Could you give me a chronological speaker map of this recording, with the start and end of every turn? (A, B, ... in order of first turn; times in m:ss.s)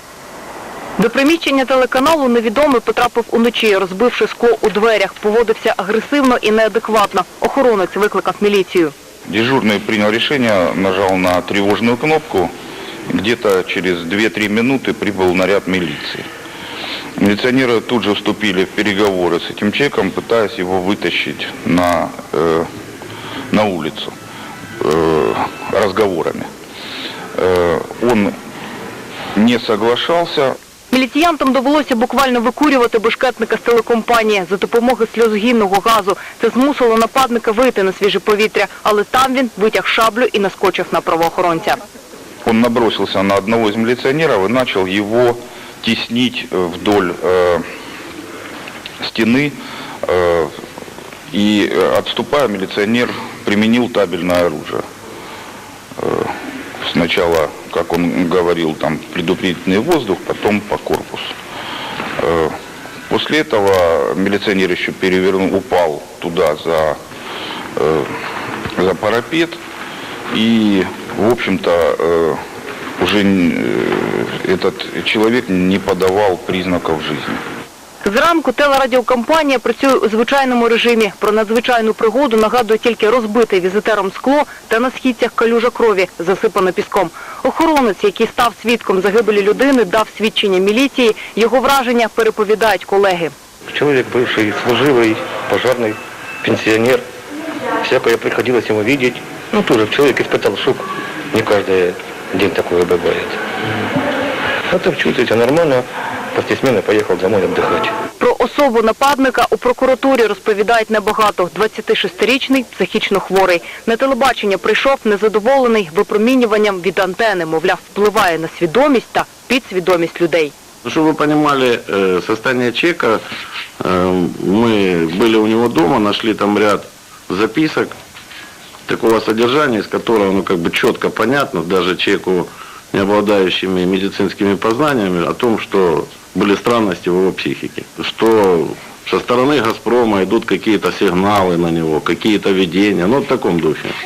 0:01.0-0:08.9 A
0:09.3-0:12.5 B
0:13.1-0:16.2 B
0:17.2-0:22.7 B
0:23.5-0:24.1 B
0:24.8-0:26.5 B
0:27.4-0:28.3 B
0:29.4-0:30.5 B
0:30.9-0:41.8 A
0:42.4-0:47.6 B
0:49.0-0:50.5 B
0:51.3-0:54.8 B
0:56.0-1:01.3 B
1:02.2-1:02.5 B
1:03.1-1:07.0 B
1:07.8-1:08.1 B
1:08.8-1:09.6 B
1:10.3-1:12.4 B
1:13.0-1:17.4 B
1:18.0-1:33.3 A
1:33.8-1:37.0 C
1:37.8-1:43.3 C
1:44.7-1:45.8 C
1:46.4-1:47.8 C
1:48.2-2:00.5 A
2:00.9-2:03.2 D
2:03.9-2:07.9 D
2:08.9-2:23.9 D